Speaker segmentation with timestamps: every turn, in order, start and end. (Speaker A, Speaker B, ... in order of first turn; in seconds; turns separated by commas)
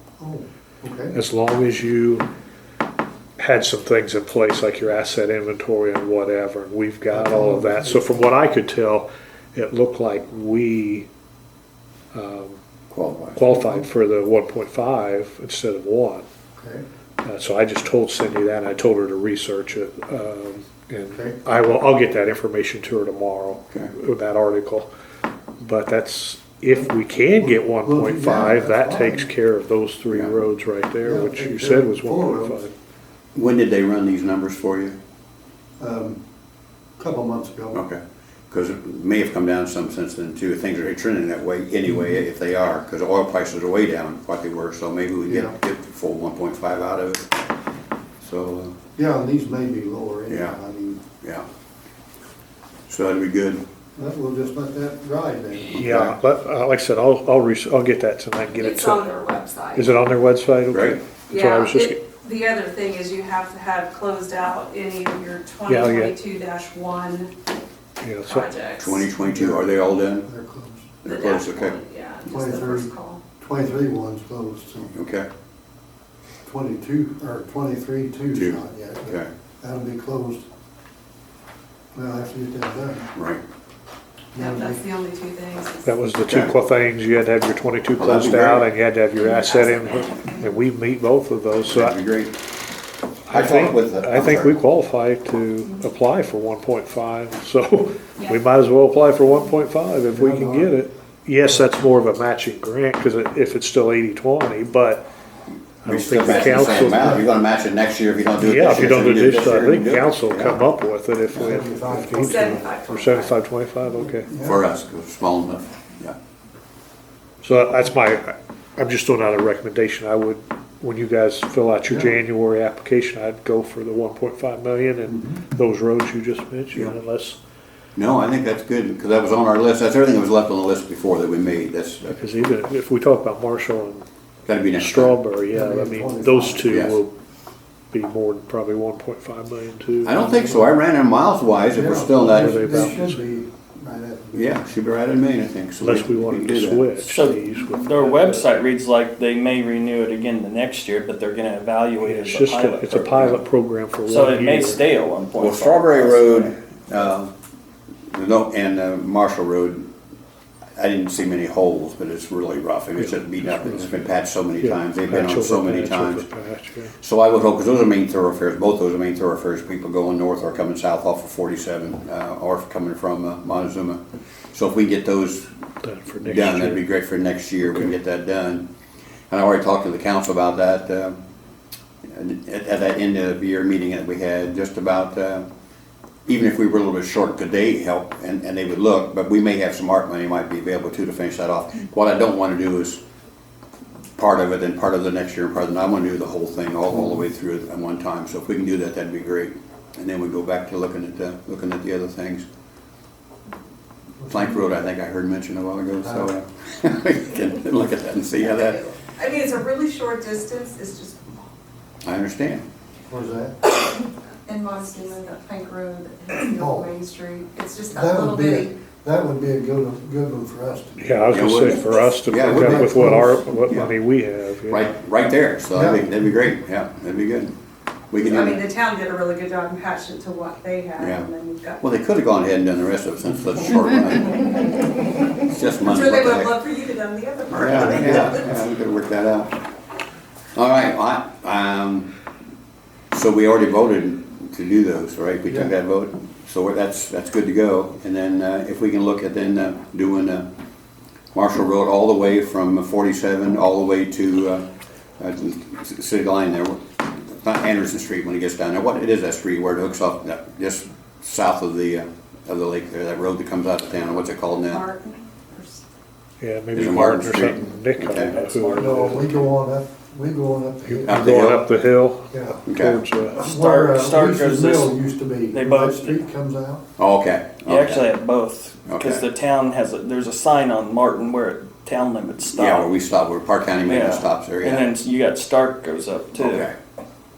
Speaker A: 0.2-1.1, Speaker B: 1.1-2.3, Speaker B: 3.4-11.1, Speaker A: 7.1-8.3, Speaker B: 12.1-12.6, Speaker C: 12.9-13.4, Speaker B: 13.3-16.2, Speaker A: 13.5-13.8, Speaker A: 16.6-16.8, Speaker B: 17.2-24.9, Speaker A: 21.1-21.4, Speaker B: 25.6-32.7, Speaker A: 26.7-29.3, Speaker C: 30.1-30.4, Speaker A: 31.0-32.7, Speaker C: 33.3-35.0, Speaker A: 35.8-36.2, Speaker A: 37.0-37.8, Speaker C: 37.7-47.4, Speaker A: 41.9-42.2, Speaker A: 45.2-45.5, Speaker C: 48.2-48.8, Speaker A: 49.0-51.0, Speaker C: 50.3-50.6, Speaker C: 51.2-51.5, Speaker C: 52.9-53.6, Speaker A: 53.9-55.8, Speaker B: 55.7-59.1, Speaker C: 55.8-56.1, Speaker D: 58.5-60.0, Speaker B: 59.7-62.0, Speaker C: 60.7-61.0, Speaker D: 61.3-67.3, Speaker B: 65.7-66.1, Speaker B: 68.0-68.5, Speaker D: 68.2-69.0, Speaker C: 68.8-70.3, Speaker A: 69.2-69.7, Speaker A: 70.2-71.0, Speaker C: 71.0-71.8, Speaker D: 71.0-73.2, Speaker A: 72.2-74.9, Speaker C: 74.9-75.3, Speaker A: 76.4-80.4, Speaker C: 78.3-79.3, Speaker A: 81.9-83.1, Speaker C: 83.1-83.4, Speaker A: 84.3-84.8, Speaker D: 84.3-86.0, Speaker B: 85.8-92.0, Speaker C: 86.3-86.5, Speaker C: 88.0-88.7, Speaker D: 89.2-90.4, Speaker C: 91.7-92.3, Speaker B: 93.3-105.1, Speaker C: 93.3-94.6, Speaker A: 100.1-100.7, Speaker B: 105.8-107.2, Speaker C: 105.8-110.6, Speaker A: 106.8-107.2, Speaker B: 108.4-114.3, Speaker A: 111.3-113.0, Speaker D: 112.1-113.3, Speaker A: 114.2-114.6, Speaker C: 114.4-116.2, Speaker B: 117.4-127.4, Speaker A: 121.9-122.1, Speaker A: 125.1-125.4, Speaker C: 128.0-132.3, Speaker B: 132.1-134.1, Speaker C: 134.4-135.2, Speaker B: 134.8-137.1, Speaker A: 135.5-136.8, Speaker C: 136.7-137.0, Speaker B: 137.9-140.3, Speaker C: 140.0-142.9, Speaker A: 141.7-144.6, Speaker B: 142.2-143.2, Speaker C: 144.3-146.9, Speaker B: 145.8-148.5, Speaker E: 147.0-153.4, Speaker B: 152.0-154.8, Speaker E: 154.1-156.5, Speaker C: 155.4-157.3, Speaker C: 158.1-159.9, Speaker C: 160.8-166.2, Speaker B: 163.0-163.9, Speaker B: 164.6-166.9, Speaker C: 167.0-175.5, Speaker B: 175.8-176.8, Speaker C: 176.2-178.7, Speaker C: 179.3-181.2, Speaker C: 182.1-185.5, Speaker C: 186.2-193.0, Speaker C: 194.2-202.4, Speaker C: 204.3-208.8, Speaker A: 206.0-206.3, Speaker D: 208.5-211.4, Speaker C: 212.0-212.7, Speaker A: 213.1-213.6, Speaker D: 214.4-218.7, Speaker A: 216.5-216.9, Speaker A: 217.9-221.4, Speaker B: 221.0-224.9, Speaker C: 221.3-222.9, Speaker A: 222.4-223.5, Speaker C: 223.7-224.0, Speaker C: 224.7-227.5, Speaker A: 225.7-226.1, Speaker C: 228.1-228.6, Speaker D: 228.2-231.8, Speaker C: 231.0-231.3, Speaker C: 231.8-234.7, Speaker C: 235.4-236.6, Speaker D: 235.8-238.6, Speaker C: 237.5-239.6, Speaker A: 237.6-238.4, Speaker C: 240.5-242.1, Speaker C: 243.1-250.5, Speaker C: 251.3-254.7, Speaker C: 255.2-264.9, Speaker D: 264.7-265.8, Speaker B: 266.4-269.3, Speaker C: 266.7-268.4, Speaker E: 268.2-269.4, Speaker A: 268.7-271.4, Speaker B: 270.9-273.4, Speaker C: 271.1-271.7, Speaker A: 272.3-272.6, Speaker C: 272.6-273.0, Speaker E: 273.3-274.9, Speaker A: 273.3-276.8, Speaker E: 275.5-276.2, Speaker C: 277.0-278.1, Speaker E: 277.6-282.9, Speaker C: 278.9-279.3, Speaker C: 282.5-284.9, Speaker E: 283.9-286.7, Speaker C: 286.4-286.7